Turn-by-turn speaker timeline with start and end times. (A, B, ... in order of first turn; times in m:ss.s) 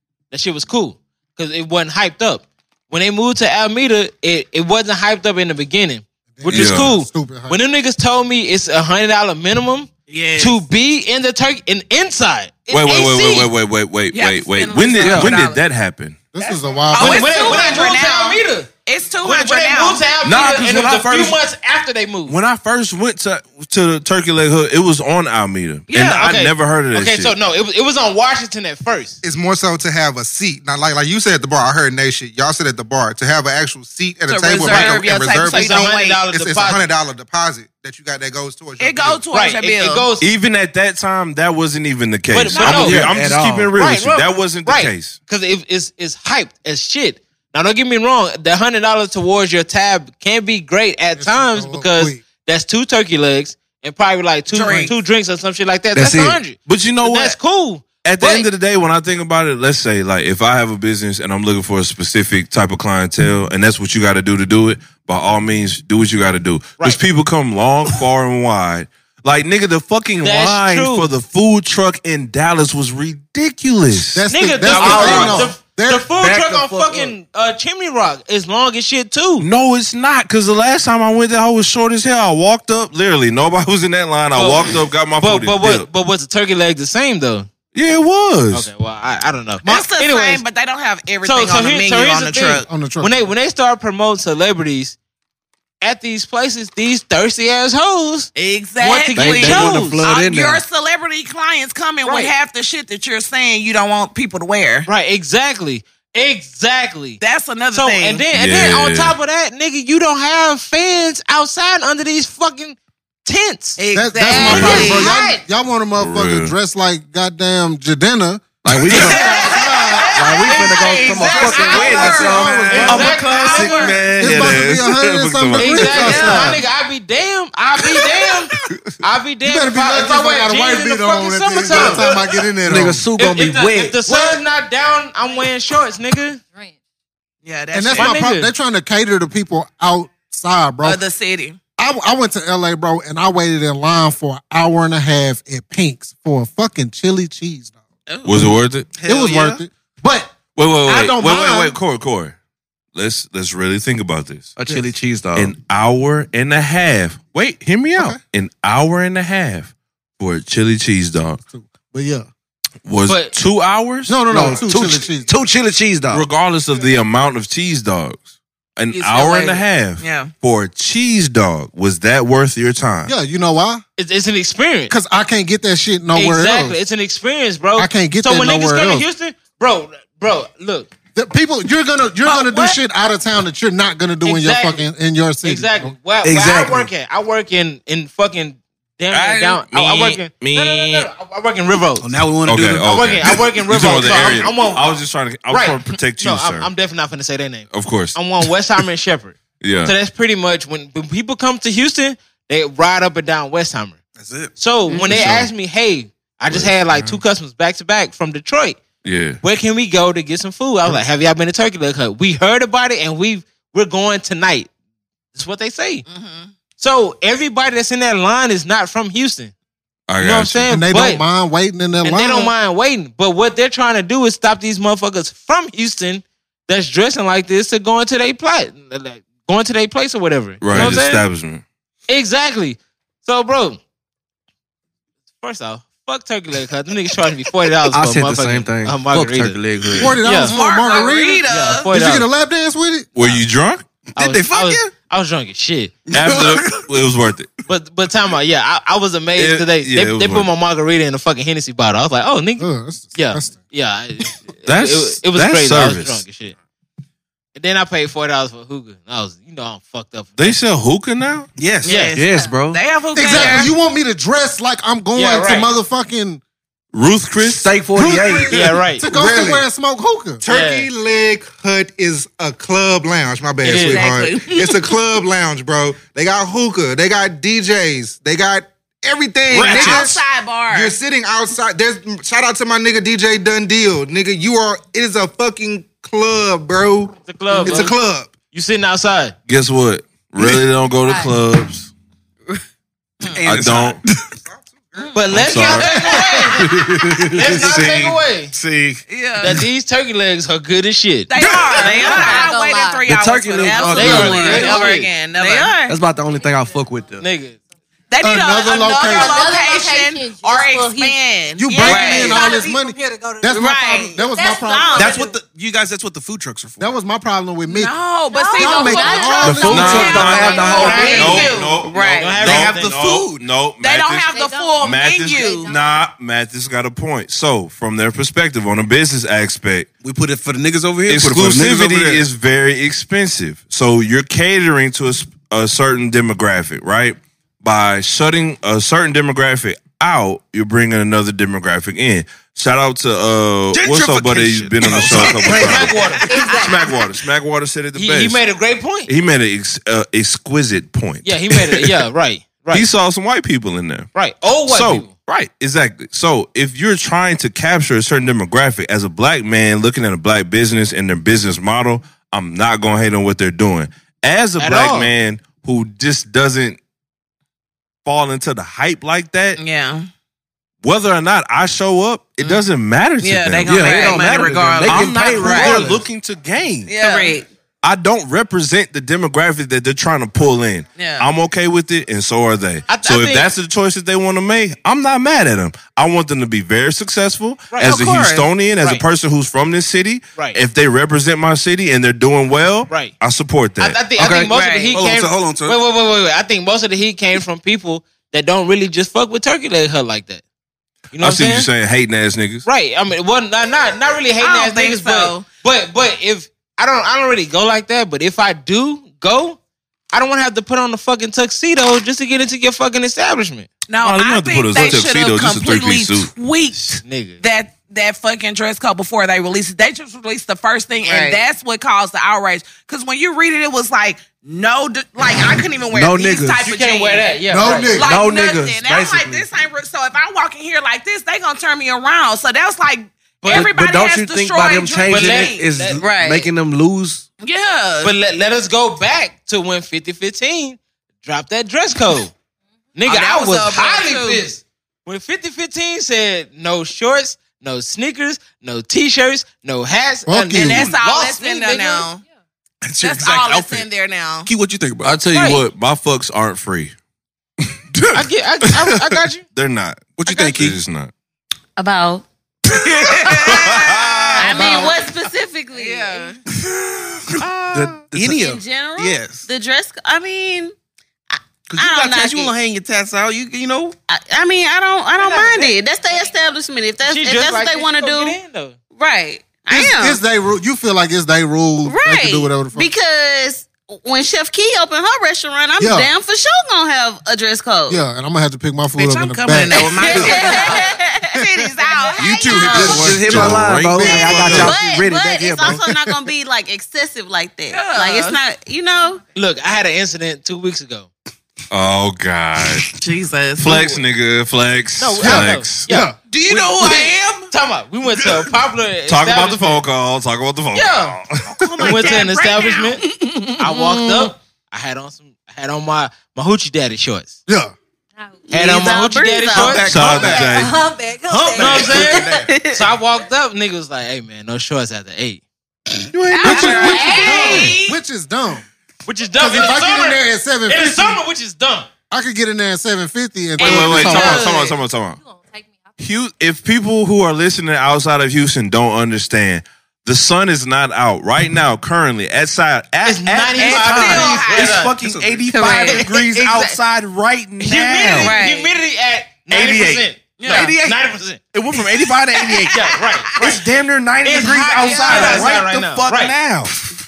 0:00.3-0:13.5 A
0:06.3-0:07.6 B
0:06.5-0:06.9 C
0:10.1-0:10.6 D
0:12.7-0:16.2 C
0:14.1-0:15.6 D
0:15.0-0:15.3 E
0:16.3-0:17.4 B
0:16.9-0:20.1 D
0:16.9-0:18.7 A
0:19.2-0:22.3 A
0:20.3-0:21.0 E
0:20.3-0:21.3 C
0:22.3-0:27.3 C
0:25.9-0:26.3 D
0:26.0-0:29.2 A
0:29.2-0:39.2 F
0:34.3-0:36.2 D
0:34.7-0:36.8 A
0:38.8-0:40.0 D
0:39.3-0:40.2 A
0:40.2-0:45.2 C
0:42.3-0:43.0 A
0:42.6-0:43.7 E
0:43.8-0:58.5 A
0:51.2-0:52.2 B
0:54.5-0:54.9 D
0:55.9-0:56.4 E
0:56.6-0:57.4 C
0:58.0-1:14.2 C
1:10.2-1:11.1 A
1:14.0-1:16.1 B
1:14.3-1:19.4 A
1:14.7-1:15.5 E
1:16.1-1:17.1 E
1:19.4-1:25.9 C
1:24.3-1:27.5 A
1:27.7-1:28.7 C
1:28.5-1:30.4 A
1:29.6-1:32.7 D
1:31.2-1:34.9 A
1:32.7-1:33.3 B
1:35.8-1:40.0 A
1:38.4-1:44.9 D
1:39.2-1:40.6 E
1:42.0-1:42.3 A
1:44.8-1:47.2 A
1:47.2-1:48.2 D
1:47.7-1:55.4 A
1:48.3-1:49.1 C
1:53.8-1:55.2 D
1:53.9-2:00.1 B
1:54.4-1:55.0 C
1:56.0-1:56.5 C
1:58.6-1:59.4 E
1:58.9-2:04.1 D
1:59.0-2:04.0 A
2:00.1-2:03.9 E
2:01.7-2:02.2 G
2:01.8-2:03.1 B
2:03.5-2:06.0 C
2:04.1-2:06.6 B
2:05.6-2:12.2 A
2:05.9-2:06.6 D
2:09.4-2:13.1 B
2:12.6-2:14.1 E
2:13.2-2:16.4 A
2:17.4-2:18.2 D
2:17.7-2:21.0 B
2:18.0-2:18.5 A
2:20.8-2:21.6 D
2:21.8-2:27.8 B
2:28.1-2:28.5 D
2:28.2-2:28.9 C
2:28.9-2:29.6 H
2:29.0-2:30.3 B
2:30.5-2:32.4 C
2:30.8-2:31.7 B
2:32.9-2:34.5 C
2:34.6-2:35.5 E
2:35.3-2:41.4 C
2:41.4-2:42.3 B
2:42.8-2:44.3 C
2:43.1-2:43.3 A
2:44.1-2:45.3 B
2:44.3-2:46.2 E
2:46.1-2:48.2 C
2:48.8-2:53.1 C
2:48.9-2:50.3 D
2:53.0-2:53.8 B
2:54.0-2:54.9 A
2:54.9-2:56.8 B
2:56.1-3:00.9 A
2:57.8-2:59.0 B
3:01.1-3:05.9 B
3:02.3-3:02.6 A
3:04.2-3:04.8 A
3:05.4-3:12.0 A
3:06.2-3:06.9 E
3:09.1-3:11.1 C
3:12.0-3:13.4 H
3:12.4-3:16.7 C
3:12.8-3:14.9 A
3:15.5-3:24.0 A
3:17.7-3:18.2 C
3:19.6-3:19.9 C
3:24.2-3:24.5 H
3:24.6-3:28.8 A
3:25.0-3:25.5 C
3:26.5-3:27.2 C
3:29.0-3:29.4 C
3:29.4-3:34.7 A
3:35.3-3:36.0 A
3:36.1-3:36.5 D
3:36.8-3:39.5 A
3:40.1-3:40.7 C
3:40.2-3:41.2 A
3:40.7-3:42.5 B
3:42.0-3:51.2 A
3:50.6-3:51.6 C
3:52.1-3:53.8 A
3:55.4-3:59.6 A
3:57.9-4:00.2 E
4:00.0-4:03.1 B
4:00.2-4:00.6 A
4:00.4-4:01.9 D
4:01.5-4:02.3 A
4:03.1-4:03.8 C
4:04.1-4:04.9 H
4:04.2-4:05.9 A
4:06.1-4:06.8 H
4:06.1-4:07.5 C
4:07.7-4:16.5 A
4:09.4-4:10.5 C
4:12.6-4:13.6 B
4:14.6-4:16.2 C
4:17.5-4:20.6 A
4:20.4-4:21.5 C
4:21.6-4:21.9 H
4:21.8-4:23.7 D
4:21.8-4:22.2 A
4:22.1-4:22.8 E
4:23.1-4:26.4 B
4:25.1-4:25.7 A
4:26.9-4:27.7 C
4:27.4-4:28.8 E
4:28.0-4:28.4 B
4:28.4-4:29.0 A
4:29.0-4:30.4 B
4:29.0-4:29.6 F
4:30.4-4:48.3 F
4:30.5-4:30.9 A
4:33.6-4:34.1 A
4:33.7-4:34.8 D
4:39.5-4:40.1 H
4:39.5-4:41.0 D
4:47.3-4:47.9 A
4:48.5-4:49.3 A
4:49.5-4:51.9 C
4:53.3-4:54.2 H
4:53.4-4:54.0 C
4:54.4-4:55.1 F
4:55.0-4:56.5 D
4:55.1-4:56.7 A
4:55.3-4:56.1 C
4:56.8-4:57.3 E
4:57.3-4:58.5 A
4:57.4-4:59.0 H
4:59.1-4:59.6 D
4:59.4-5:01.3 A
5:01.3-5:05.8 D
5:01.4-5:02.6 G
5:01.9-5:02.2 A
5:02.3-5:03.0 I
5:03.0-5:04.7 E
5:03.6-5:05.9 G
5:03.9-5:05.1 A
5:05.9-5:07.2 E
5:07.2-5:07.6 A
5:08.1-5:12.6 D
5:08.2-5:09.5 B
5:09.1-5:11.2 I
5:11.6-5:15.1 B
5:11.7-5:12.5 G
5:12.0-5:13.5 I
5:13.5-5:15.2 G
5:13.5-5:14.2 D
5:14.4-5:15.3 I
5:14.9-5:16.9 H
5:16.8-5:18.0 B
5:17.7-5:22.3 D
5:18.3-5:19.8 I
5:18.5-5:20.1 B
5:18.8-5:19.1 H
5:18.9-5:22.4 G
5:19.4-5:21.4 E
5:19.7-5:29.9 C
5:20.7-5:23.0 A
5:22.4-5:23.4 H
5:23.8-5:25.7 D
5:24.3-5:26.0 I
5:30.0-5:32.3 H
5:31.1-5:48.4 C
5:43.7-5:46.5 H
5:45.4-5:46.3 A
5:46.3-5:46.7 I
5:48.0-5:49.1 A
5:49.1-5:52.0 C
5:51.2-5:52.8 A
5:52.7-5:54.1 C
5:54.1-5:55.1 A
5:54.7-6:06.8 C
6:04.6-6:05.1 A
6:08.0-6:09.6 C
6:09.6-6:10.1 D
6:10.8-6:14.2 C
6:13.2-6:15.9 D
6:13.7-6:16.0 E
6:14.8-6:16.9 C
6:16.8-6:17.4 D
6:17.0-6:17.4 G
6:17.8-6:34.0 C
6:21.0-6:21.2 D
6:22.9-6:23.5 A
6:27.7-6:28.0 A
6:27.8-6:28.5 D
6:33.8-6:40.4 A
6:34.2-6:35.8 H
6:34.5-6:34.9 G
6:34.6-6:34.9 D
6:41.1-6:41.7 A
6:41.2-6:42.6 C
6:42.6-6:49.6 A
6:44.4-6:45.4 D
6:50.1-6:53.7 A
6:53.9-7:16.5 D
6:54.0-6:56.3 C
6:57.0-6:57.4 A
7:01.0-7:01.4 G
7:05.9-7:06.7 E
7:06.6-7:08.0 A
7:07.5-7:08.1 B
7:08.0-7:09.5 E
7:13.4-7:13.7 A
7:13.5-7:17.2 E
7:15.1-7:16.0 A
7:17.4-7:18.1 D
7:18.0-7:22.3 A
7:23.0-7:32.1 A
7:23.0-7:24.5 D
7:30.3-7:30.9 B
7:30.5-7:32.2 D
7:32.8-7:33.8 H
7:33.0-7:34.5 D
7:34.4-7:35.2 H
7:35.0-7:36.9 C
7:35.3-7:35.6 A
7:37.9-7:38.2 H
7:38.1-7:39.4 A
7:39.5-7:41.1 C
7:40.2-7:40.8 H
7:41.8-7:42.2 G
7:43.1-7:44.9 D
7:43.2-7:43.7 G
7:43.5-7:44.5 C
7:44.2-7:44.5 H
7:44.4-7:46.3 G
7:45.7-7:46.4 D
7:46.5-7:49.5 H
7:47.7-7:48.3 E
7:48.2-7:50.7 G
7:51.3-7:52.5 G
7:51.7-7:54.0 H
7:54.1-7:58.4 G
7:55.2-7:56.5 A
7:57.0-7:58.8 A
7:58.9-8:00.2 G
7:59.7-8:02.9 B
8:01.8-8:08.0 G
8:05.8-8:06.1 B
8:07.9-8:10.5 B
8:09.0-8:13.0 D
8:09.9-8:11.4 G
8:12.0-8:13.2 G
8:12.2-8:13.5 H
8:12.8-8:15.8 E
8:13.2-8:14.8 C
8:14.0-8:14.6 B
8:14.0-8:19.2 G
8:17.7-8:18.4 D
8:19.3-8:21.1 A
8:21.7-8:22.9 C
8:22.9-8:23.9 D
8:23.6-8:25.9 C
8:25.0-8:29.8 A
8:25.2-8:26.2 B
8:26.3-8:27.5 D
8:26.6-8:27.0 H
8:29.0-8:32.0 C
8:30.7-8:31.2 A
8:31.6-8:33.4 D
8:31.8-8:33.0 A
8:33.6-8:37.4 A
8:37.5-8:37.7 B
8:38.5-8:39.9 G
8:38.5-8:40.4 A
8:39.5-8:40.7 H
8:39.8-8:40.7 C
8:40.4-8:42.3 I
8:41.2-8:42.5 H
8:41.5-8:45.4 A
8:42.4-8:42.8 G
8:46.1-8:46.7 C
8:46.3-8:48.0 D
8:46.4-8:47.7 G
8:46.4-8:48.6 B
8:46.5-8:47.8 A
8:49.0-8:51.9 A
8:49.4-8:51.2 B
8:52.1-8:54.4 B
8:53.6-8:54.8 D
8:53.6-8:55.2 C
8:53.6-8:54.4 G
8:55.2-8:55.8 I
8:56.0-9:08.3 C
9:03.0-9:04.9 A
9:03.6-9:04.9 D
9:04.1-9:05.5 H
9:05.6-9:06.0 G
9:05.6-9:05.9 D
9:05.6-9:06.7 A
9:07.6-9:11.4 A
9:08.1-9:08.7 G
9:09.5-9:10.8 C
9:10.4-9:10.7 D
9:11.5-9:12.8 C
9:12.3-9:12.7 D
9:12.7-9:13.6 A
9:13.4-9:16.8 C
9:14.2-9:16.3 A
9:14.9-9:15.4 D